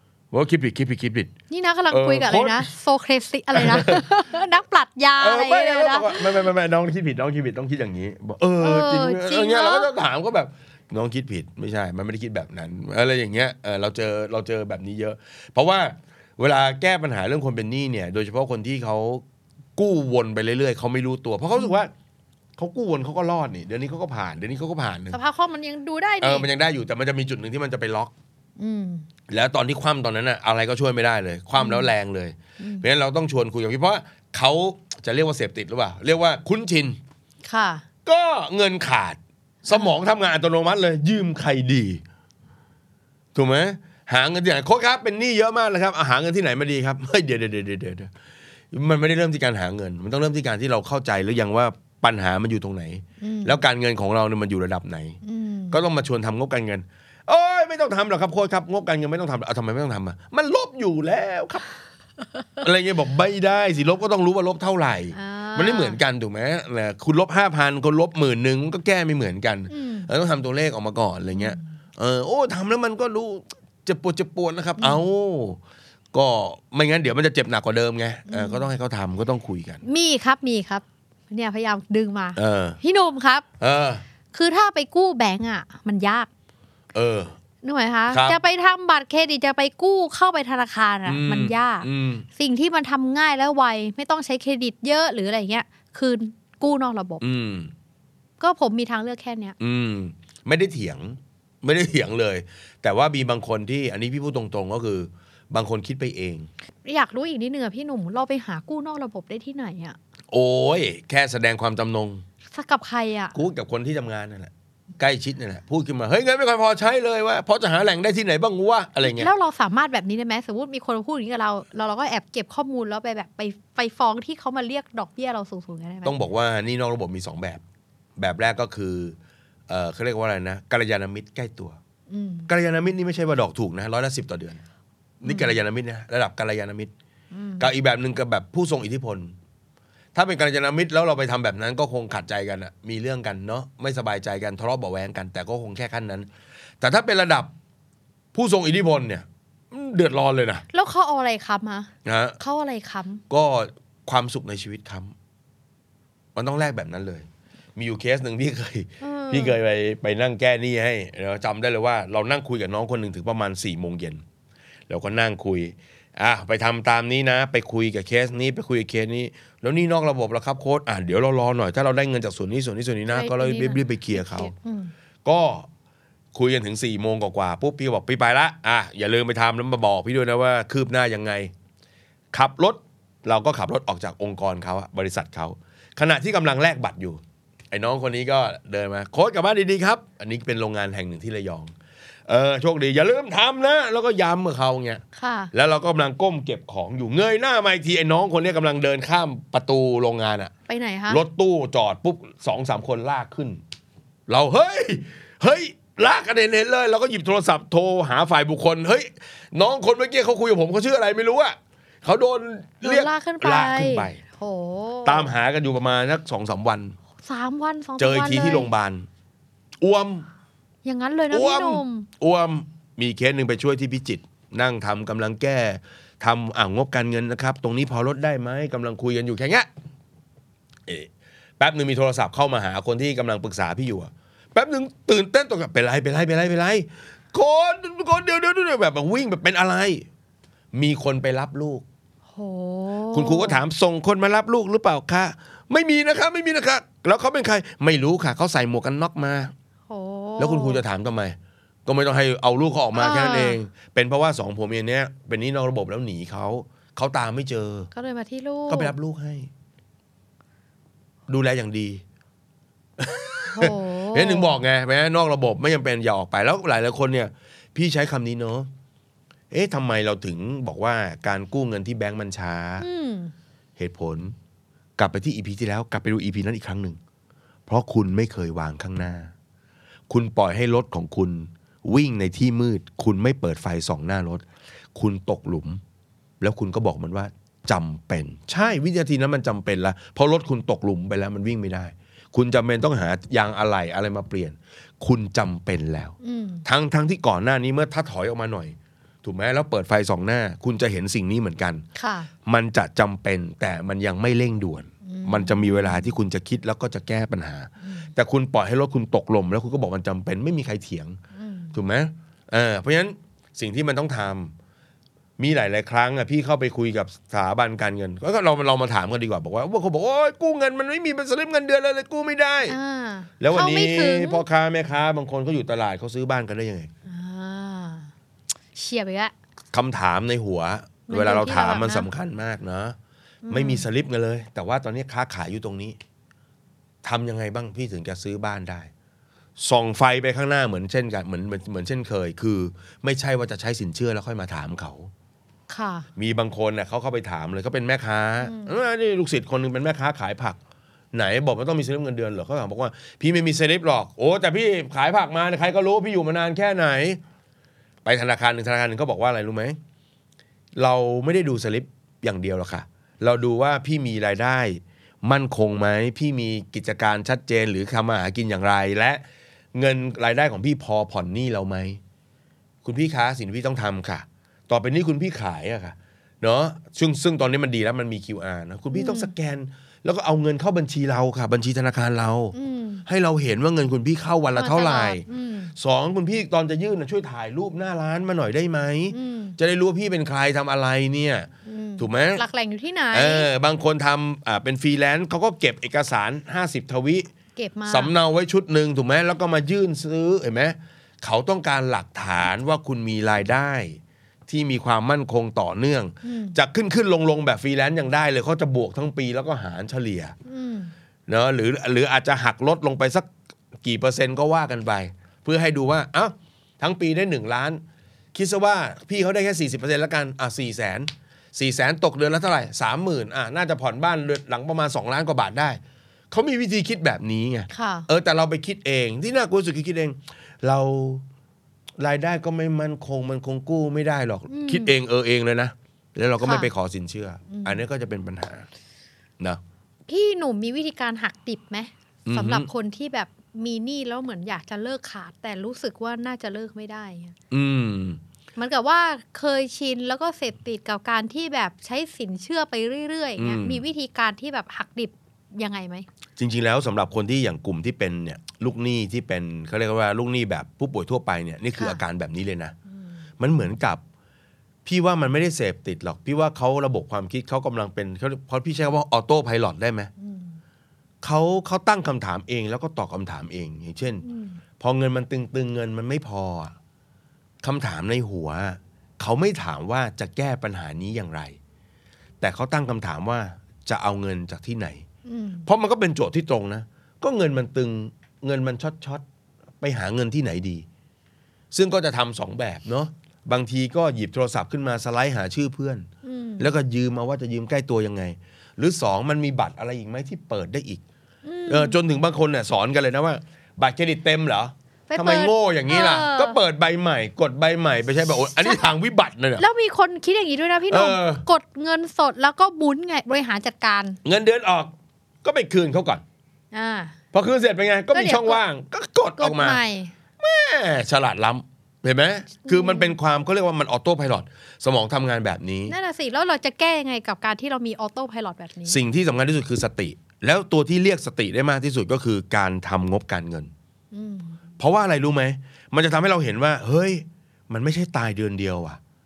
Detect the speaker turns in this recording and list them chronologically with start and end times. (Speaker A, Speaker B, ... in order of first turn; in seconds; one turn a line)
Speaker A: 0.3-1.3
Speaker B: 1.5-6.5
Speaker A: 1.9-2.7
Speaker A: 3.5-4.1
Speaker A: 5.2-19.2
Speaker B: 8.6-9.9
Speaker A: 19.8-21.9
Speaker A: 22.6-25.2
Speaker B: 25.1-26.5
Speaker A: 26.2-28.1
Speaker B: 28.6-29.1
Speaker A: 29.3-37.0
Speaker B: 31.6-31.9
Speaker B: 32.6-32.9
Speaker B: 37.5-37.8
Speaker A: 38.1-42.0
Speaker A: 43.4-48.1
Speaker A: 48.7-55.2
Speaker B: 53.2-53.6
Speaker B: 55.2-55.8
Speaker A: 55.7-61.6
Speaker A: 62.6-75.6
Speaker B: 65.1-66.0
Speaker B: 69.7-70.1
Speaker B: 71.3-71.6
Speaker A: 76.1-79.8
Speaker B: 78.3-78.7
Speaker B: 79.8-83.5
Speaker A: 82.4-82.8
Speaker A: 83.6-84.0
Speaker B: 84.3-86.3
Speaker A: 86.9-87.3
Speaker B: 87.6-97.2
Speaker A: 88.1-88.4
Speaker A: 91.1-92.3
Speaker A: 97.2-97.7
Speaker B: 98.4-99.5
Speaker A: 99.6-106.5
Speaker B: 106.8-110.0
Speaker A: 110.3-112.2
Speaker B: 112.5-113.3
Speaker A: 113.3-119.3
Speaker B: 119.0-126.2
Speaker A: 126.0-127.6
Speaker A: 128.2-129.2
Speaker A: 129.7-131.8
Speaker B: 132.1-132.5
Speaker A: 132.5-134.6
Speaker A: 135.2-136.9
Speaker B: 135.2-135.6
Speaker B: 137.3-137.7
Speaker A: 137.6-139.3
Speaker A: 140.1-146.3
Speaker A: 146.8-147.5
Speaker A: 148.3-150.7
Speaker B: 150.7-153.2
Speaker A: 152.1-152.4
Speaker A: 153.3-155.1
Speaker A: 156.3-164.2
Speaker B: 159.0-159.6
Speaker A: 164.9-174.5
Speaker B: 173.1-174.9
Speaker A: 175.2-175.7
Speaker A: 176.3-181.5
Speaker A: 182.3-191.7
Speaker A: 192.3-200.5
Speaker B: 195.2-195.5
Speaker B: 200.7-201.2
Speaker A: 201.1-203.6
Speaker A: 204.3-214.2
Speaker B: 212.8-215.3
Speaker A: 215.1-217.0
Speaker B: 217.2-218.7
Speaker A: 218.0-219.1
Speaker A: 219.8-220.3
Speaker B: 220.8-222.1
Speaker A: 221.3-229.7
Speaker A: 230.9-240.1
Speaker A: 240.7-241.8
Speaker B: 242.3-243.6
Speaker A: 243.1-249.5
Speaker B: 249.9-250.8
Speaker A: 250.4-257.9
Speaker B: 253.0-253.6
Speaker B: 257.9-258.9
Speaker A: 258.7-259.5
Speaker A: 261.3-262.0
Speaker A: 263.0-268.7
Speaker B: 263.5-264.6
Speaker A: 269.5-272.9
Speaker B: 272.8-273.3
Speaker A: 273.8-274.3
Speaker A: 275.0-277.0
Speaker A: 277.7-279.3
Speaker A: 280.1-285.8
Speaker A: 286.4-301.8
Speaker B: 296.2-296.6
Speaker B: 302.0-302.3
Speaker A: 302.4-311.2
Speaker B: 305.1-306.1
Speaker B: 307.8-308.1
Speaker B: 311.4-311.8
Speaker A: 311.7-314.5
Speaker A: 315.4-322.8
Speaker B: 322.7-324.4
Speaker A: 323.4-326.9
Speaker B: 327.1-328.1
Speaker B: 328.8-329.3
Speaker A: 329.7-333.0
Speaker B: 331.1-332.1
Speaker B: 333.4-333.9
Speaker A: 333.5-336.0
Speaker A: 337.0-338.9
Speaker A: 339.6-345.1
Speaker B: 345.7-346.1
Speaker A: 346.2-350.6
Speaker B: 348.4-348.7
Speaker A: 351.1-357.2
Speaker A: 358.1-359.8
Speaker A: 360.8-369.2
Speaker A: 369.7-372.0
Speaker A: 372.9-382.6
Speaker B: 378.9-379.3
Speaker B: 382.5-383.1
Speaker A: 383.1-385.2
Speaker B: 384.6-385.7
Speaker A: 385.8-392.4
Speaker B: 389.1-389.6
Speaker B: 391.7-393.5
Speaker A: 393.1-397.3
Speaker B: 397.6-398.1
Speaker A: 397.9-410.4
Speaker B: 406.2-406.6
Speaker B: 410.5-410.9
Speaker A: 411.3-413.3
Speaker A: 413.8-417.8
Speaker A: 418.3-425.8
Speaker A: 426.3-431.2
Speaker B: 427.7-428.1
Speaker A: 432.0-438.7
Speaker B: 434.5-434.9
Speaker B: 436.4-436.7
Speaker B: 437.5-437.8
Speaker B: 440.1-447.4
Speaker A: 442.3-442.7
Speaker A: 447.5-448.2
Speaker B: 448.6-456.1
Speaker A: 453.4-453.8
Speaker A: 456.4-462.8
Speaker B: 461.8-462.0
Speaker A: 463.4-464.0
Speaker A: 464.9-470.1
Speaker B: 470.2-470.6
Speaker A: 471.2-474.2
Speaker B: 474.2-474.6
Speaker A: 474.8-476.7
Speaker A: 477.6-481.6
Speaker A: 482.4-485.1
Speaker B: 485.3-485.7
Speaker A: 485.7-489.2
Speaker A: 489.8-490.9
Speaker A: 491.7-496.1
Speaker B: 496.2-496.7
Speaker A: 496.6-501.0
Speaker B: 501.4-502.0
Speaker A: 501.7-509.6
Speaker B: 505.1-506.6
Speaker B: 509.6-514.2
Speaker A: 510.9-511.4
Speaker A: 514.2-514.9
Speaker A: 515.4-516.2
Speaker B: 516.7-517.2
Speaker A: 517.3-519.8
Speaker B: 518.1-518.6
Speaker B: 519.4-520.1
Speaker A: 520.4-526.0
Speaker B: 522.7-523.2
Speaker B: 525.9-529.0
Speaker A: 528.9-533.7
Speaker B: 534.1-534.6
Speaker A: 534.8-539.0